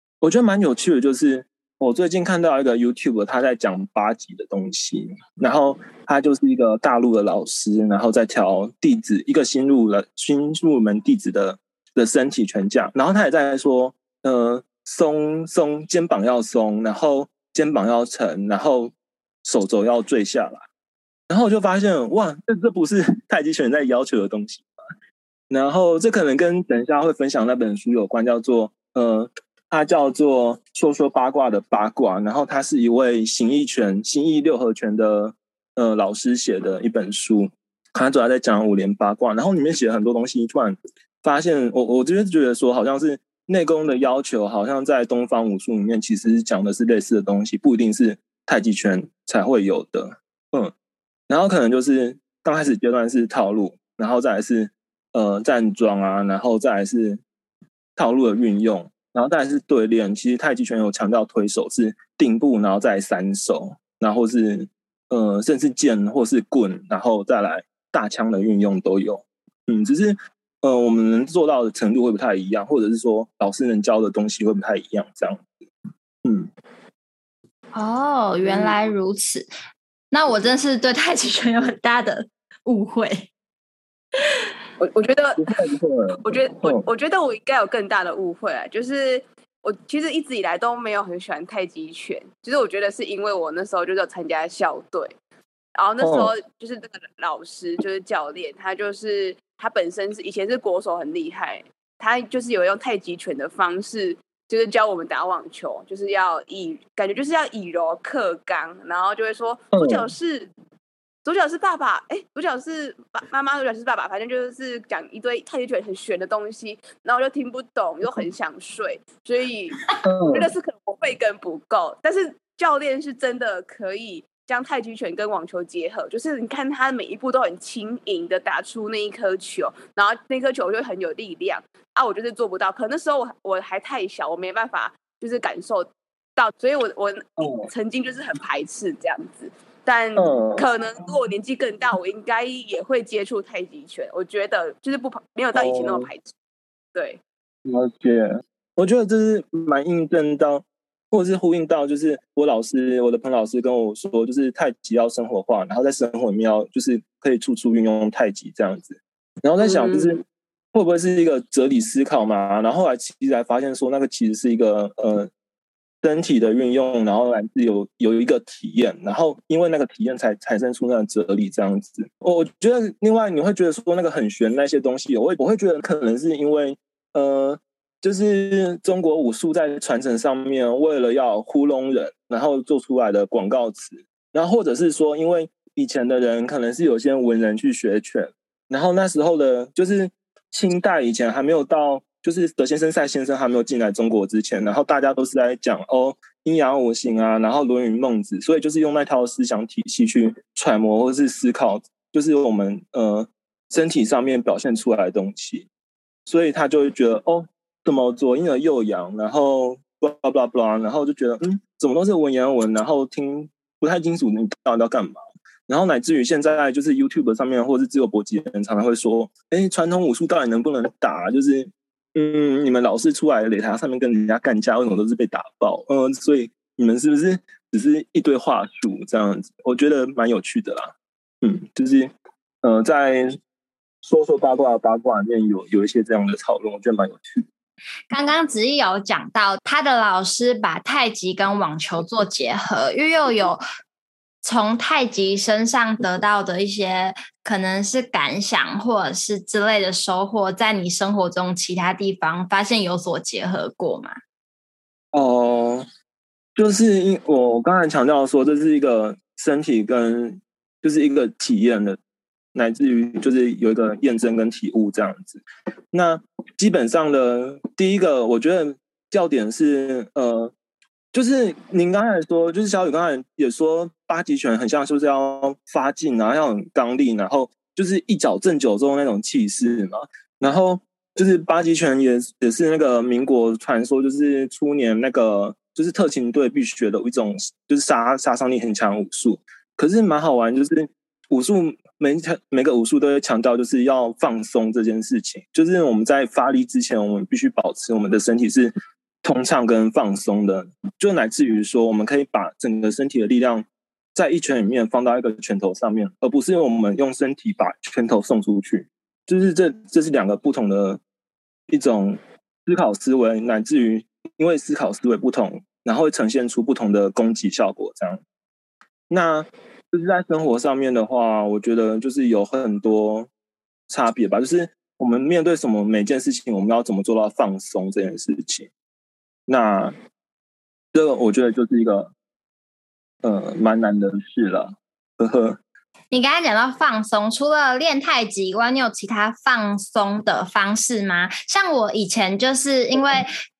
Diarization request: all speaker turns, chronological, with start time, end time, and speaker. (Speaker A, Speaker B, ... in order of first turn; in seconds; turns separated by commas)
Speaker A: 0.2-20.6, Speaker A: 21.3-24.6, Speaker A: 25.5-50.7, Speaker A: 51.3-57.2, Speaker A: 58.0-75.5, Speaker A: 76.2-76.5, Speaker B: 77.7-79.5, Speaker B: 80.1-83.3, Speaker C: 84.8-85.4, Speaker A: 85.4-86.8, Speaker C: 86.2-95.1, Speaker C: 95.8-110.5, Speaker A: 96.0-96.3, Speaker A: 109.7-110.1, Speaker C: 111.2-146.3, Speaker A: 120.0-120.5, Speaker A: 137.4-137.7, Speaker A: 140.2-140.6, Speaker A: 145.5-146.1, Speaker C: 146.9-147.2, Speaker A: 147.6-160.2, Speaker C: 159.6-160.2, Speaker A: 160.7-165.3, Speaker A: 166.0-205.7, Speaker A: 206.2-230.9, Speaker A: 231.4-232.1, Speaker A: 232.6-233.4, Speaker A: 234.0-237.4, Speaker B: 238.1-243.6, Speaker B: 244.4-254.1, Speaker A: 255.1-255.8, Speaker A: 256.6-262.0, Speaker A: 262.5-270.5, Speaker A: 271.1-311.0, Speaker A: 311.7-318.2, Speaker A: 319.1-323.3, Speaker A: 323.9-328.7, Speaker A: 329.5-329.9, Speaker A: 330.9-332.1, Speaker A: 333.2-335.6, Speaker B: 336.1-343.3